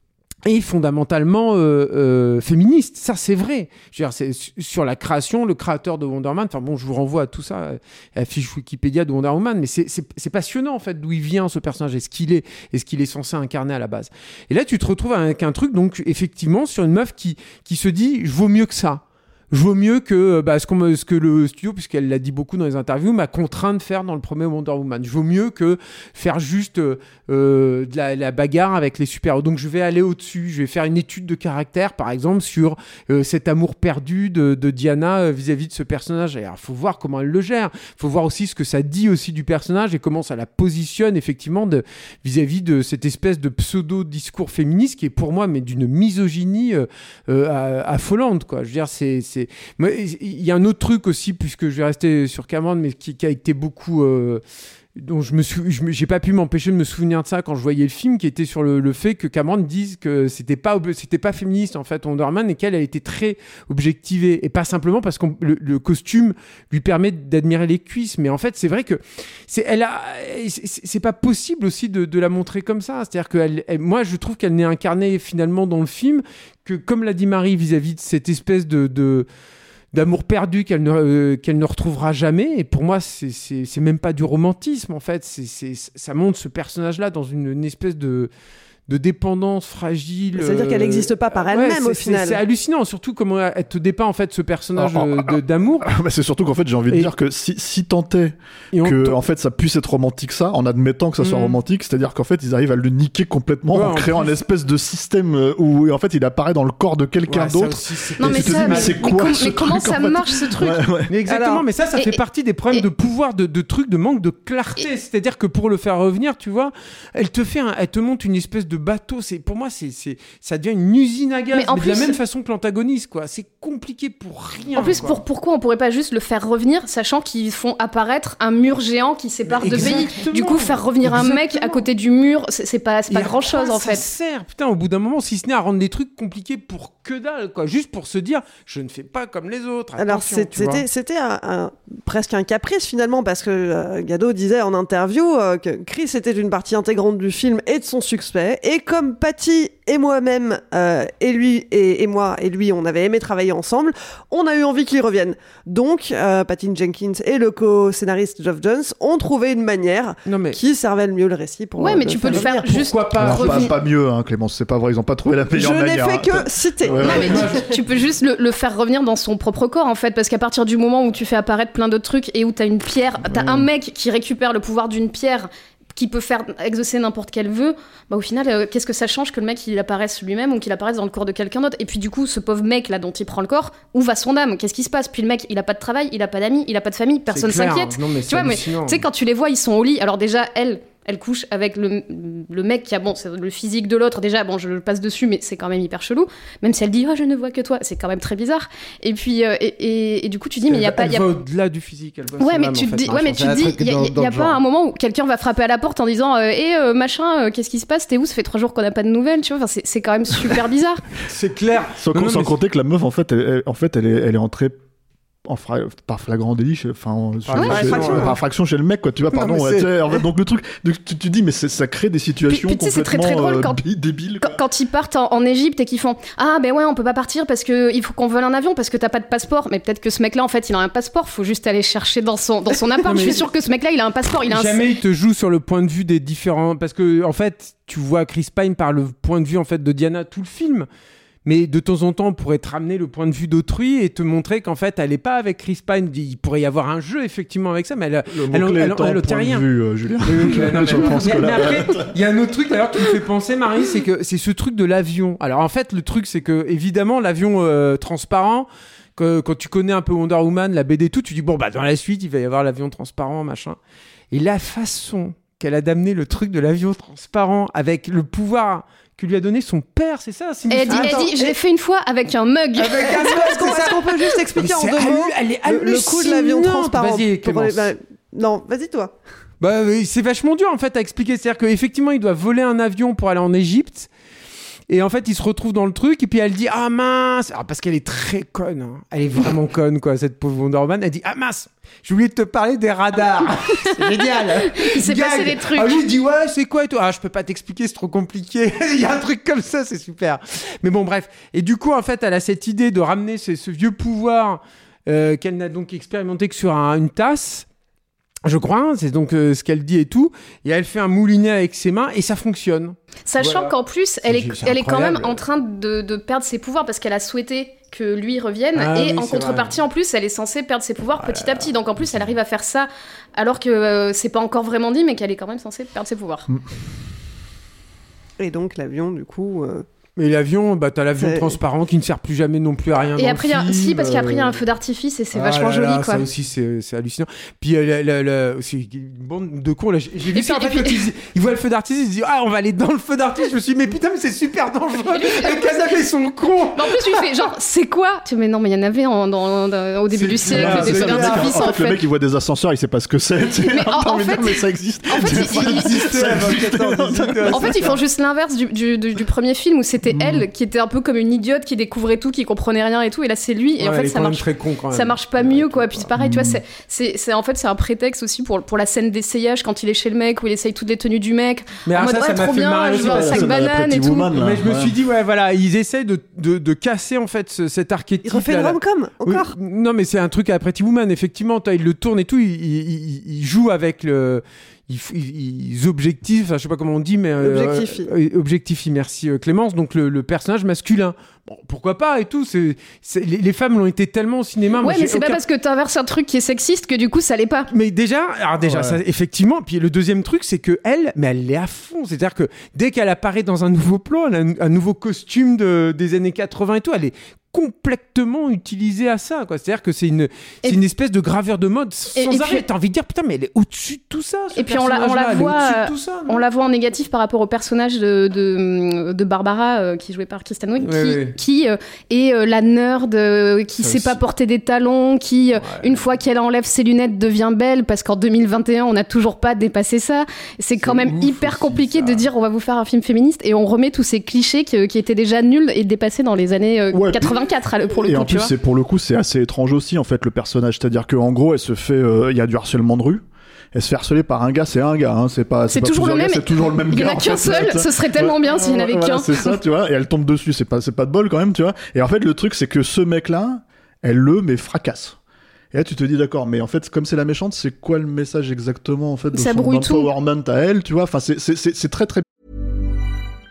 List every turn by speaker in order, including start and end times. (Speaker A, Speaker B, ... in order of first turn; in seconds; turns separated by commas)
Speaker A: 0.5-54.4, Speaker A: 55.0-79.2, Speaker A: 79.9-88.3, Speaker A: 88.9-95.9, Speaker B: 90.3-92.4, Speaker C: 94.8-111.1, Speaker A: 98.7-99.2, Speaker A: 101.2-101.6, Speaker A: 103.7-104.3, Speaker A: 107.3-109.1, Speaker D: 108.2-110.8, Speaker A: 111.1-125.2, Speaker B: 111.3-111.6, Speaker D: 121.5-122.2, Speaker D: 124.7-134.0, Speaker A: 129.5-131.8, Speaker A: 133.1-140.8, Speaker B: 140.0-162.4, Speaker A: 160.2-160.6, Speaker D: 161.8-163.8, Speaker A: 162.2-163.7, Speaker C: 163.2-167.4, Speaker B: 165.5-167.6, Speaker D: 167.0-201.3, Speaker A: 167.0-167.7, Speaker C: 173.2-173.7, Speaker A: 187.3-189.0, Speaker A: 200.6-204.6, Speaker D: 202.4-211.0, Speaker A: 211.2-212.6, Speaker C: 212.0-214.8, Speaker C: 215.4-224.6, Speaker A: 217.5-218.3, Speaker D: 217.6-217.9, Speaker B: 217.7-218.3, Speaker A: 219.3-220.2, Speaker D: 222.5-223.8, Speaker D: 224.4-234.8, Speaker A: 233.0-233.4, Speaker A: 234.5-240.9, Speaker A: 241.4-249.7, Speaker C: 248.3-252.1, Speaker A: 250.2-263.8, Speaker A: 264.3-271.3, Speaker D: 270.7-273.4, Speaker B: 270.9-271.6, Speaker A: 272.8-277.9, Speaker B: 273.1-279.1, Speaker A: 279.6-284.1, Speaker A: 284.9-307.6, Speaker D: 294.7-296.0, Speaker A: 308.4-315.4, Speaker D: 313.3-326.5, Speaker A: 318.7-319.8, Speaker A: 321.1-322.3, Speaker B: 328.4-329.9, Speaker A: 330.2-334.6, Speaker B: 331.2-331.6, Speaker D: 333.2-336.2, Speaker A: 335.3-347.3, Speaker D: 340.3-341.1, Speaker D: 345.1-345.8, Speaker D: 346.8-352.0, Speaker A: 350.1-351.7, Speaker C: 350.2-357.9, Speaker D: 353.6-356.2, Speaker A: 355.2-358.0, Speaker D: 357.5-374.3, Speaker A: 360.1-360.4, Speaker A: 363.8-366.1, Speaker C: 366.1-366.6, Speaker A: 371.9-373.6, Speaker C: 373.0-374.9, Speaker A: 374.3-395.4, Speaker B: 378.2-379.5, Speaker B: 387.4-388.1, Speaker D: 394.8-397.7, Speaker A: 397.7-416.4, Speaker C: 398.6-399.0, Speaker D: 412.2-412.6, Speaker D: 414.5-438.5, Speaker A: 420.8-421.4, Speaker A: 423.8-424.2, Speaker A: 425.6-426.1, Speaker A: 430.8-432.3, Speaker C: 430.9-431.6, Speaker C: 436.9-437.4, Speaker C: 437.9-455.2, Speaker D: 445.7-449.6, Speaker C: 455.7-462.2, Speaker D: 459.3-460.1